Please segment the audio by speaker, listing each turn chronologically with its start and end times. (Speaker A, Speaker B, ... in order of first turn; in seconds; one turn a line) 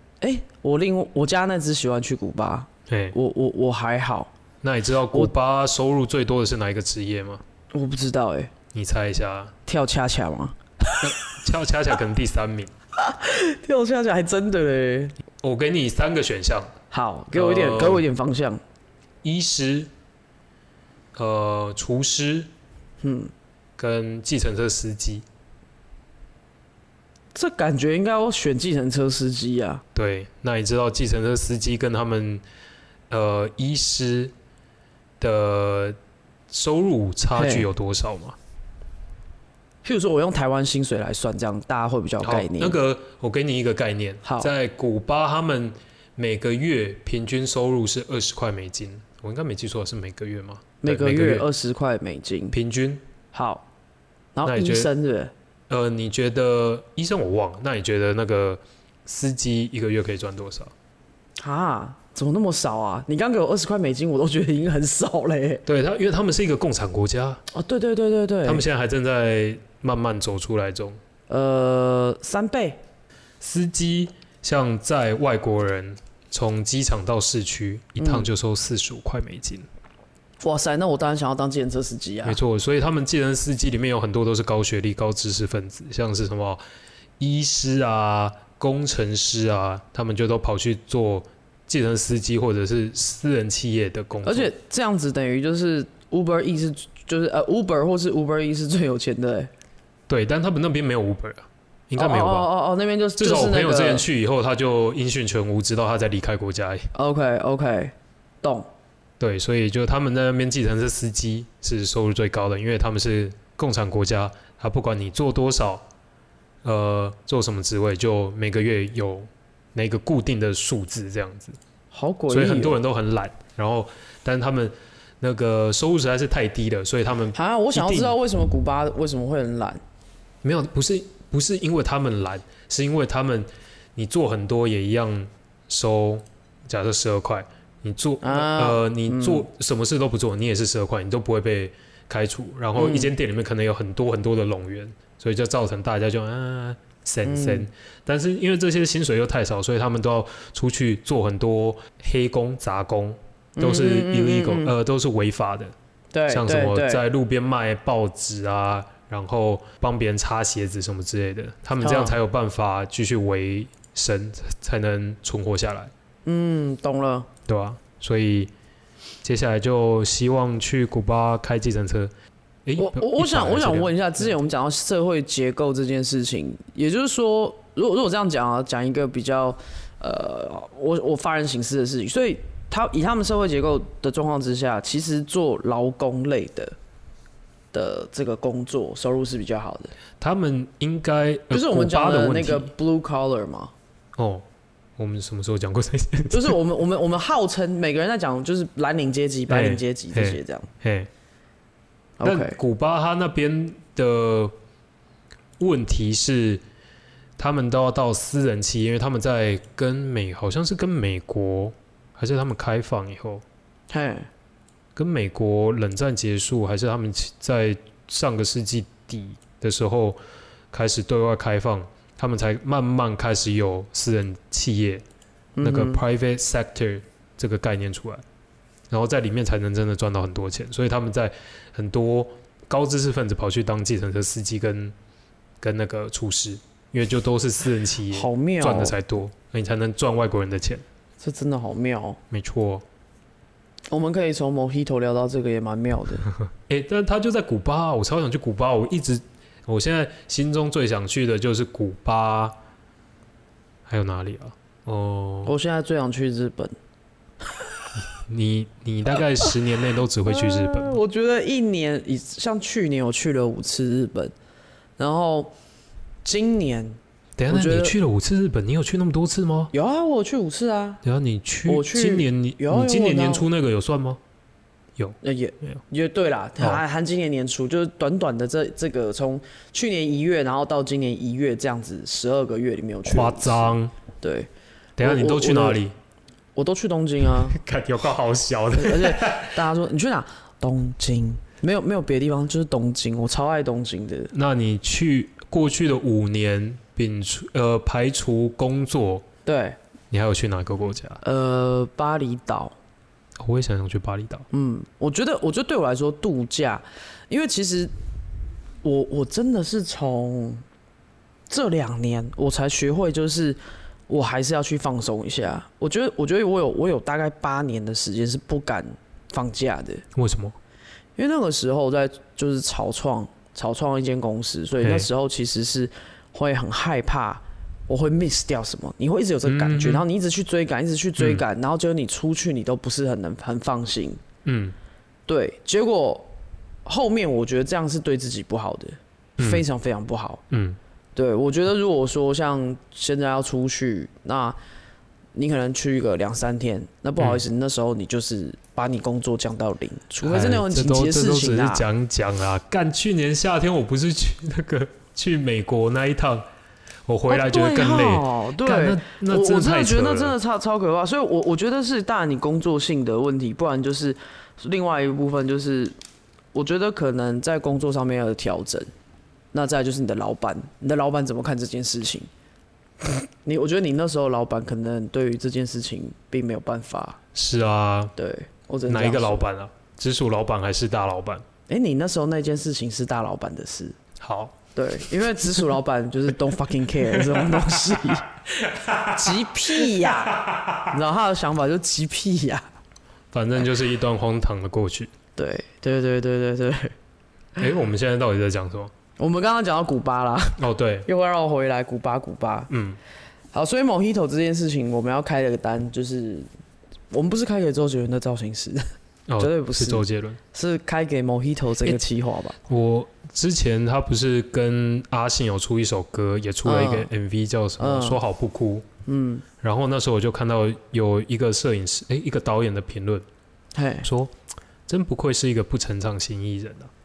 Speaker A: 0.2-4.3
Speaker B: 2.9-3.2
Speaker B: 4.6-7.4
Speaker A: 7.7-8.5
Speaker B: 8.7-9.5
Speaker A: 9.7-11.1
Speaker B: 11.0-12.7
Speaker A: 12.9-15.2
Speaker B: 15.4-16.8
Speaker A: 16.9-18.6
Speaker B: 17.3-18.1
Speaker B: 19.2-19.9
Speaker B: 21.1-22.5
Speaker A: 23.0-23.3
Speaker B: 23.8-25.2
Speaker A: 27.3-29.8
Speaker B: 29.9-32.4
Speaker B: 33.1-34.3
Speaker B: 35.2-36.0
Speaker B: 36.5-38.4
Speaker A: 37.4-37.7
Speaker A: 39.8-42.8
Speaker B: 42.2-51.5
Speaker A: 44.2-44.5
Speaker A: 50.8-52.5
Speaker B: 52.5-53.0
Speaker A: 53.3-53.7
Speaker A: 54.4-55.3
Speaker B: 54.5-54.9
Speaker B: 55.7-60.7
Speaker A: 61.4-65.6
Speaker B: 65.7-67.4
Speaker A: 67.5-68.7
Speaker B: 68.5-71.0
Speaker A: 71.3-72.8
Speaker B: 73.4-79.7
Speaker A: 78.0-78.3
Speaker A: 80.4-82.4
Speaker B: 82.2-86.6
Speaker B: 87.2-94.5
Speaker A: 94.2-99.5
Speaker B: 100.1-102.5
Speaker A: 102.0-104.1
Speaker B: 103.2-106.9
Speaker A: 107.0-108.7
Speaker B: 109.2-115.8
Speaker B: 116.6-121.6
Speaker A: 121.9-122.8
Speaker B: 122.3-128.2
Speaker A: 127.3-129.8
Speaker B: 130.4-155.7
Speaker A: 138.2-139.5
Speaker A: 142.8-143.1
Speaker A: 147.2-147.7
Speaker A: 153.6-154.7
Speaker A: 156.1-157.0
Speaker B: 156.3-165.9
Speaker A: 161.8-162.2
Speaker A: 166.2-167.3
Speaker B: 167.5-168.5
Speaker B: 169.2-172.1
Speaker B: 172.7-174.3
Speaker A: 172.8-186.8
Speaker A: 187.7-189.9
Speaker B: 190.2-192.7
Speaker A: 191.5-193.7
Speaker B: 194.2-194.4
Speaker B: 195.0-196.6
Speaker A: 196.3-200.7
Speaker B: 199.5-201.1
Speaker A: 202.2-202.6
Speaker B: 202.2-204.6
Speaker B: 205.6-206.6
Speaker B: 207.4-213.4
Speaker A: 213.9-214.3
Speaker B: 215.0-220.2
Speaker B: 220.7-225.0
Speaker A: 225.6-226.0
Speaker B: 225.6-228.2
Speaker B: 228.9-234.9
Speaker B: 235.6-240.8
Speaker A: 238.1-238.9
Speaker A: 241.2-242.2
Speaker B: 242.3-242.8
Speaker A: 243.9-246.2
Speaker B: 246.6-252.6
Speaker B: 253.9-255.5
Speaker A: 255.5-256.8
Speaker A: 257.5-257.9
Speaker B: 258.0-261.0
Speaker A: 260.3-264.3
Speaker A: 265.0-265.5
Speaker A: 266.2-268.0
Speaker B: 267.4-269.7
Speaker A: 269.7-271.0
Speaker B: 271.0-274.2
Speaker A: 271.7-273.5
Speaker B: 275.0-275.8
Speaker A: 275.2-284.5
Speaker B: 283.1-283.9
Speaker B: 285.0-285.9
Speaker A: 285.0-285.8
Speaker A: 286.6-287.6
Speaker B: 287.4-289.6
Speaker A: 288.7-294.3
Speaker B: 294.3-299.3
Speaker A: 299.4-299.8
Speaker B: 300.1-301.2
Speaker A: 301.2-302.8
Speaker B: 303.4-304.5
Speaker A: 304.5-307.9
Speaker A: 308.8-310.6
Speaker A: 311.5-320.1
Speaker B: 320.1-320.6
Speaker A: 321.2-334.2
Speaker B: 324.8-325.1
Speaker B: 329.4-330.1
Speaker B: 331.2-331.4
Speaker B: 334.4-334.8
Speaker A: 335.3-336.3
Speaker A: 336.9-340.4
Speaker B: 339.4-339.6
Speaker B: 340.5-340.8
Speaker A: 341.1-344.6
Speaker A: 345.3-351.9
Speaker B: 350.2-356.4
Speaker B: 357.1-360.4
Speaker A: 357.3-365.9
Speaker A: 366.5-368.9
Speaker A: 369.5-372.3
Speaker A: 373.0-377.2
Speaker B: 377.4-378.1
Speaker A: 378.2-379.5
Speaker B: 378.9-381.4
Speaker A: 381.7-384.0
Speaker B: 384.2-384.6
Speaker A: 384.8-388.3
Speaker B: 387.1-388.0
Speaker B: 388.5-390.9
Speaker A: 389.1-392.7
Speaker B: 393.3-395.1
Speaker A: 395.4-396.9
Speaker B: 397.6-398.9
Speaker A: 399.2-402.7
Speaker B: 400.6-401.1
Speaker B: 402.7-403.0
Speaker A: 403.5-406.5
Speaker A: 407.1-408.9
Speaker B: 409.3-410.4
Speaker A: 409.4-412.6
Speaker B: 412.7-418.9
Speaker A: 416.6-417.1
Speaker A: 417.8-418.2
Speaker A: 419.1-419.4
Speaker B: 419.6-423.2
Speaker A: 423.7-424.1
Speaker B: 424.0-424.3
Speaker B: 424.9-426.9